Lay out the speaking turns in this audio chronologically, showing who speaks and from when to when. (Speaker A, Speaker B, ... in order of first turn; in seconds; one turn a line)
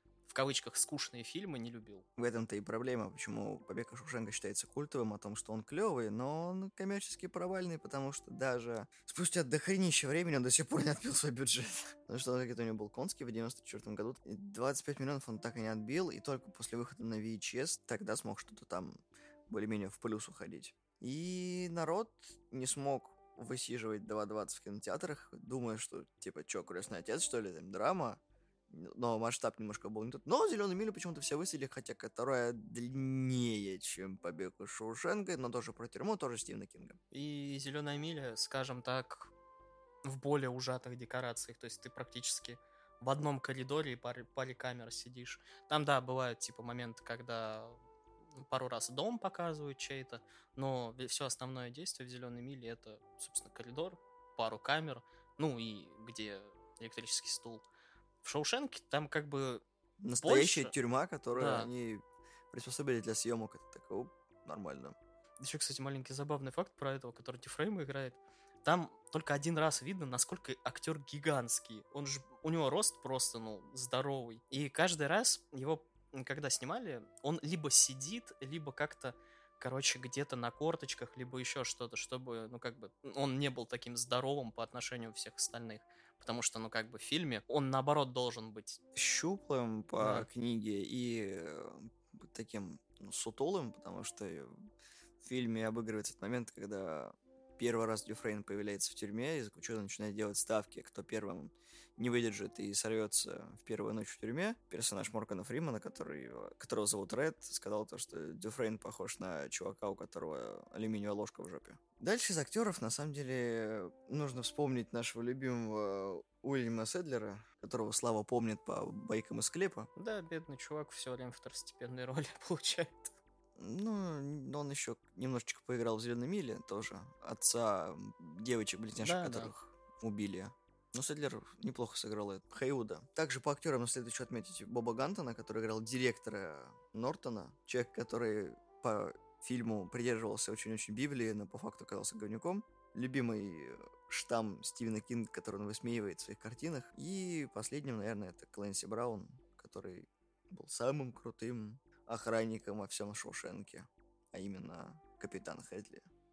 Speaker A: 0.3-2.0
Speaker B: 2.2-19.0
Speaker B: 19.5-37.0
Speaker A: 37.1-39.3
Speaker A: 40.0-47.8
Speaker A: 48.4-57.6
Speaker A: 58.2-59.6
Speaker B: 60.0-65.0
Speaker A: 60.2-60.7
Speaker A: 61.4-61.7
Speaker A: 65.4-88.8
Speaker B: 89.0-94.5
Speaker A: 90.0-90.3
Speaker B: 95.2-119.9
Speaker A: 120.0-123.1
Speaker B: 123.6-156.1
Speaker A: 129.0-129.5